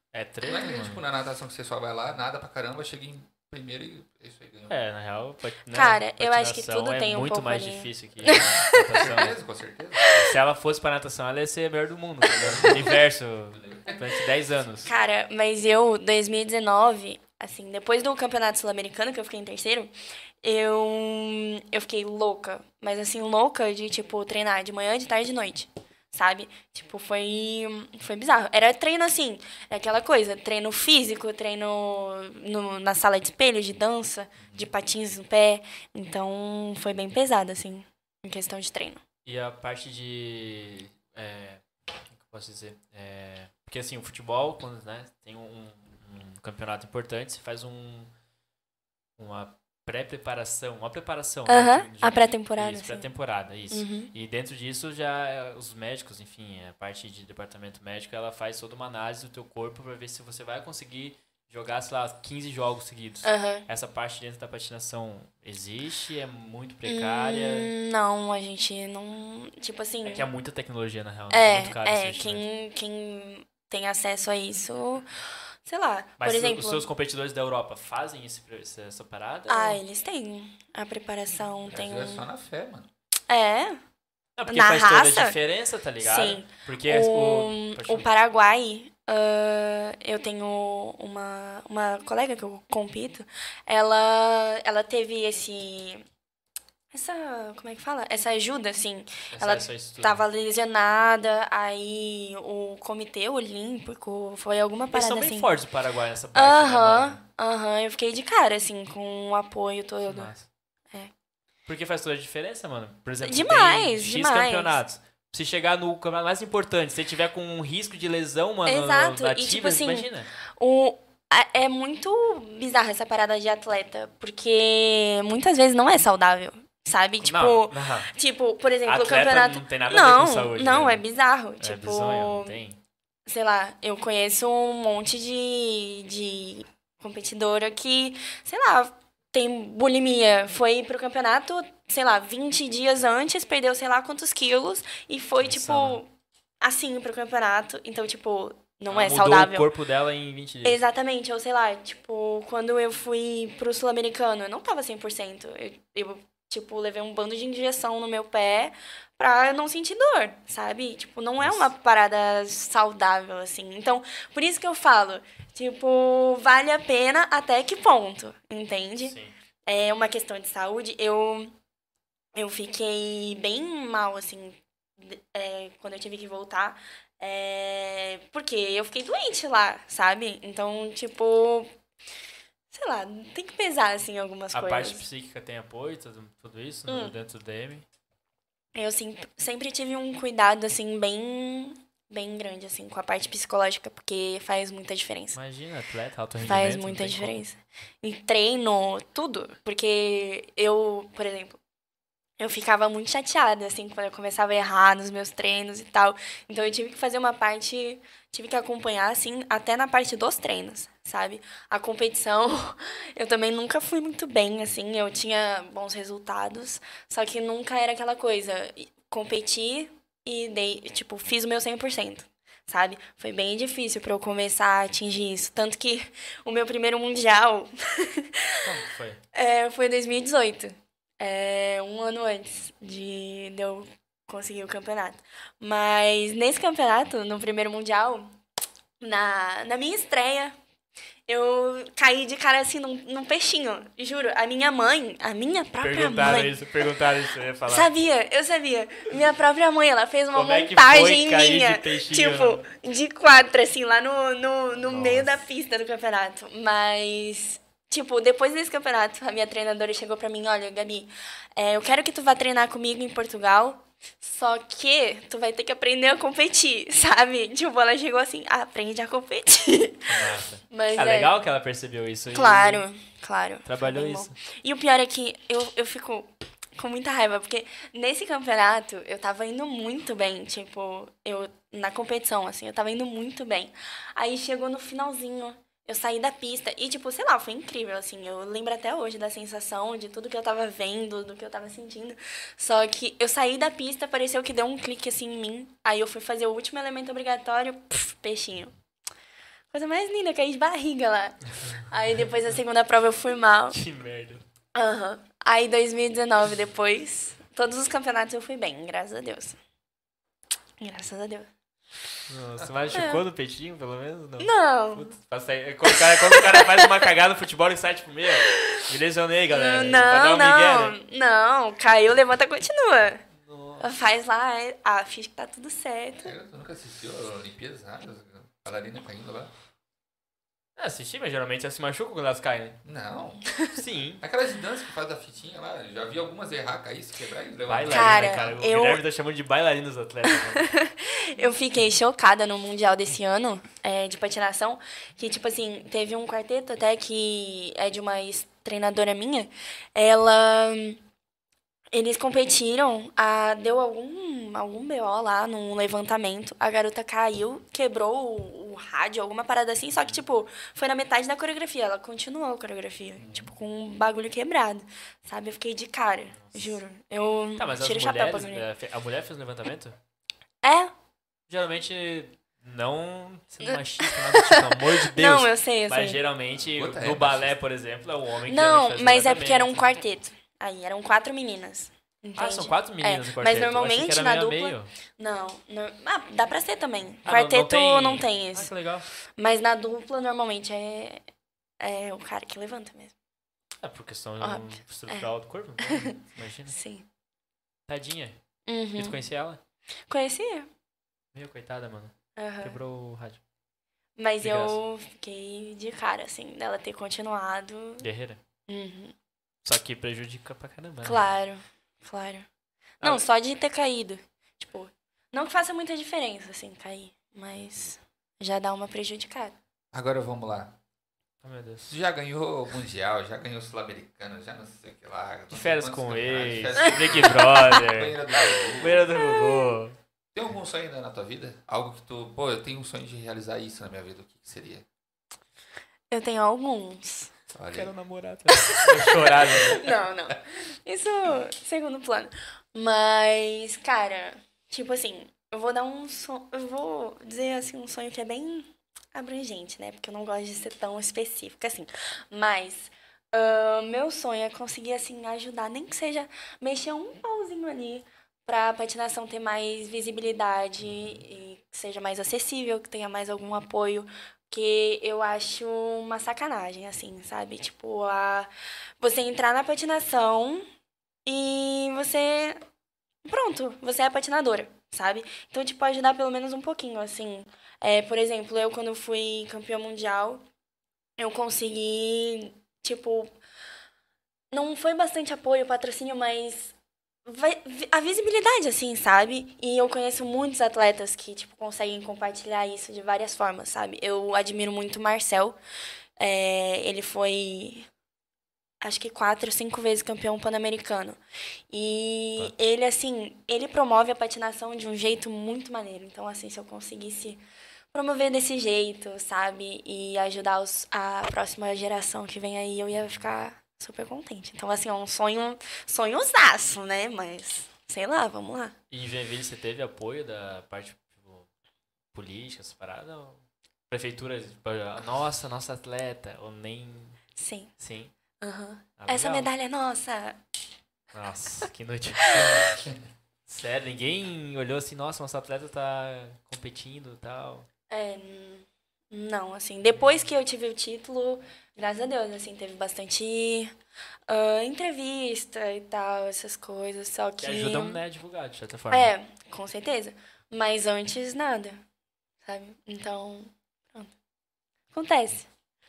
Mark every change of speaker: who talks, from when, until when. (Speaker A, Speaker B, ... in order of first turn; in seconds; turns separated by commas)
Speaker A: 0.1-1.0, Speaker B: 0.4-4.8, Speaker A: 4.7-9.4, Speaker C: 5.7-9.0, Speaker B: 8.2-10.0, Speaker C: 10.0-10.3, Speaker A: 10.1-14.9, Speaker B: 12.3-14.2, Speaker C: 14.8-39.0, Speaker B: 34.4-34.7, Speaker A: 39.2-48.1, Speaker A: 49.2-67.7, Speaker C: 51.5-53.1, Speaker C: 53.7-54.1, Speaker C: 63.2-63.6, Speaker C: 66.8-70.3, Speaker A: 70.0-72.4, Speaker C: 71.3-75.1, Speaker C: 75.7-76.9, Speaker A: 76.2-79.8, Speaker C: 79.5-82.2, Speaker B: 81.7-82.9, Speaker C: 83.3-83.8, Speaker A: 84.4-88.1, Speaker C: 84.5-85.4, Speaker C: 86.0-96.0, Speaker C: 96.9-105.5, Speaker A: 99.3-100.2, Speaker A: 104.9-107.2, Speaker C: 106.3-110.3, Speaker A: 110.0-110.5, Speaker A: 111.7-120.3, Speaker C: 113.2-114.8, Speaker C: 118.7-132.6, Speaker A: 127.2-128.1, Speaker A: 128.8-131.0, Speaker A: 131.6-132.8, Speaker C: 133.2-146.1, Speaker A: 145.4-146.0, Speaker C: 146.6-149.7, Speaker A: 148.9-150.8, Speaker C: 150.6-169.1, Speaker A: 161.4-161.7, Speaker A: 169.0-169.3, Speaker C: 169.7-171.5, Speaker C: 172.3-181.7, Speaker C: 182.7-185.0, Speaker A: 184.5-187.8, Speaker C: 186.9-187.1, Speaker C: 188.7-195.4, Speaker A: 195.3-197.4, Speaker C: 196.4-201.6, Speaker C: 202.4-228.6, Speaker A: 228.6-229.2, Speaker C: 229.3-238.3, Speaker C: 239.0-240.6, Speaker C: 241.3-246.6, Speaker A: 245.8-247.9, Speaker C: 247.7-271.3, Speaker A: 250.3-252.6, Speaker A: 254.9-255.4, Speaker A: 270.1-272.8, Speaker C: 272.3-298.7, Speaker A: 273.6-274.3, Speaker C: 299.7-303.8, Speaker A: 303.7-304.4, Speaker C: 304.7-309.6, Speaker C: 310.8-311.5, Speaker A: 312.3-321.0, Speaker B: 312.6-313.1, Speaker C: 312.9-313.2, Speaker C: 314.4-315.1, Speaker C: 315.9-317.1, Speaker C: 318.4-318.8, Speaker C: 319.5-323.3, Speaker A: 323.4-323.9, Speaker C: 323.8-326.3, Speaker B: 326.2-329.5, Speaker A: 330.8-332.8, Speaker B: 332.8-333.5, Speaker A: 333.7-334.2, Speaker B: 334.2-338.5, Speaker A: 337.7-340.7, Speaker C: 337.9-339.0, Speaker C: 340.2-351.0, Speaker C: 351.9-368.6, Speaker A: 359.9-360.2, Speaker B: 363.2-363.5, Speaker A: 366.3-366.8, Speaker A: 367.6-369.9, Speaker C: 370.6-370.9, Speaker A: 371.5-379.9, Speaker C: 373.6-376.2, Speaker B: 376.6-377.6, Speaker C: 378.5-388.7, Speaker A: 382.4-384.9, Speaker A: 387.2-389.1, Speaker C: 389.4-391.2, Speaker C: 391.8-393.1, Speaker A: 393.8-396.8, Speaker C: 394.4-396.2, Speaker C: 396.7-397.1, Speaker A: 397.9-398.4, Speaker C: 398.6-399.2, Speaker A: 399.0-399.6, Speaker C: 400.1-400.7, Speaker A: 401.3-403.4, Speaker C: 402.4-402.8, Speaker C: 404.2-408.1, Speaker A: 404.4-404.8, Speaker A: 408.0-408.4, Speaker C: 408.7-409.1, Speaker A: 409.6-411.2, Speaker C: 411.0-412.5, Speaker C: 413.0-419.5, Speaker B: 419.9-420.7, Speaker A: 421.4-421.9, Speaker B: 421.9-429.1, Speaker A: 425.5-429.9, Speaker C: 426.8-427.8, Speaker C: 429.1-429.8, Speaker B: 430.3-434.8, Speaker C: 436.1-437.3, Speaker B: 437.5-437.9, Speaker A: 437.7-439.9, Speaker C: 438.5-470.7, Speaker C: 471.2-472.6, Speaker C: 473.2-480.4, Speaker C: 481.2-483.3, Speaker C: 484.5-486.7, Speaker C: 487.2-495.6, Speaker C: 496.2-497.9, Speaker C: 498.8-501.2, Speaker C: 501.7-507.4, Speaker C: 507.9-518.7, Speaker A: 518.9-521.5, Speaker A: 522.1-527.2, Speaker C: 527.4-527.7, Speaker A: 527.8-528.1, Speaker C: 528.4-530.4, Speaker A: 529.0-529.5, Speaker A: 531.1-532.8, Speaker C: 532.3-532.7, Speaker A: 533.5-537.7, Speaker C: 537.9-543.7, Speaker C: 544.3-548.0, Speaker A: 547.4-549.1, Speaker C: 548.9-551.8, Speaker C: 552.4-554.1, Speaker C: 554.9-555.5